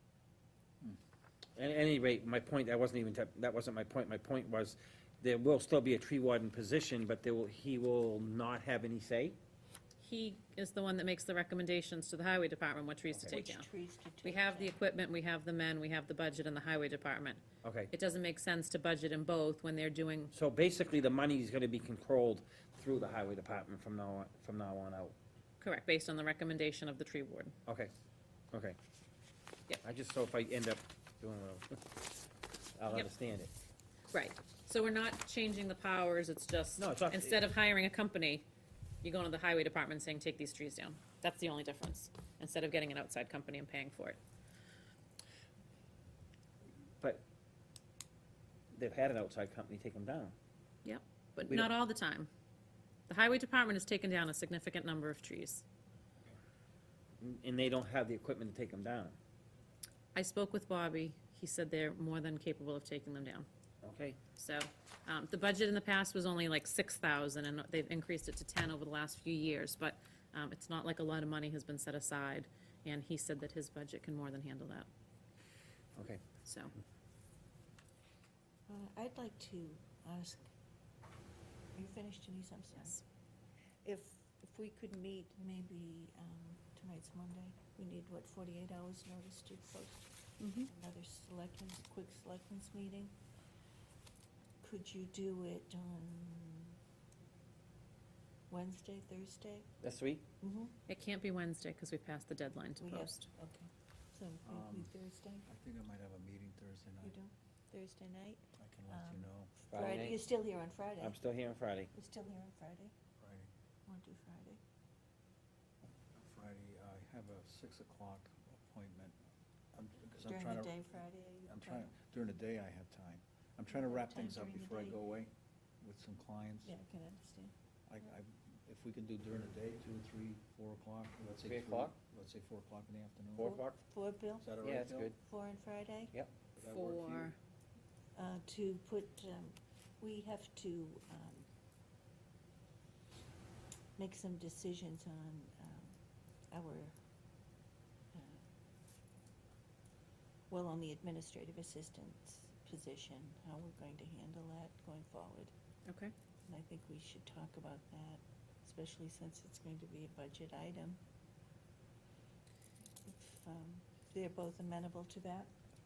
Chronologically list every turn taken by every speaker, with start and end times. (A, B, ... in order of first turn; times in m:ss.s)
0:01.6-0:09.4 A
0:10.0-0:13.7 B
0:13.3-0:14.8 C
0:14.2-0:20.3 B
0:17.6-0:17.9 A
0:20.3-0:25.2 A
0:25.6-0:27.6 B
0:27.7-0:27.9 A
0:28.5-0:28.8 A
0:29.8-0:31.8 A
0:32.8-0:33.5 A
0:34.1-0:38.5 B
0:36.8-0:37.4 A
0:39.0-0:44.2 B
0:48.7-0:50.4 A
0:50.8-0:52.3 B
0:53.1-0:55.6 B
0:57.2-0:59.2 A
1:00.1-1:03.5 B
1:03.8-1:04.2 A
1:04.4-1:14.9 B
1:16.0-1:16.2 A
1:16.4-1:16.7 B
1:18.7-1:20.4 C
1:21.8-1:23.0 C
1:23.8-1:33.1 C
1:30.4-1:30.7 B
1:34.6-1:36.8 C
1:38.5-1:39.7 C
1:39.8-1:40.2 A
1:40.4-1:40.8 C
1:40.9-1:43.3 B
1:42.8-1:45.5 C
1:44.4-1:44.9 D
1:45.5-1:47.2 D
1:47.0-1:51.2 C
1:48.6-1:49.5 D
1:49.7-1:50.2 A
1:51.0-1:51.9 A
1:51.9-1:52.9 C
1:53.2-1:53.5 D
1:53.9-1:54.6 C
1:56.2-1:59.2 D
1:59.7-2:00.9 D
2:00.2-2:01.9 C
2:01.5-2:06.8 D
2:03.7-2:05.0 C
2:06.6-2:07.5 C
2:07.9-2:13.8 D
2:11.4-2:12.0 A
2:13.4-2:14.5 C
2:14.4-2:15.1 D
2:14.6-2:15.2 A
2:15.2-2:16.2 C
2:16.6-2:17.3 D
2:16.6-2:17.4 B
2:18.2-2:21.5 C
2:24.0-2:25.9 C
2:26.5-2:26.9 C
2:28.1-2:28.4 C
2:30.5-2:35.5 C
2:35.9-2:36.1 B
2:36.5-2:41.0 C
2:43.1-2:45.5 C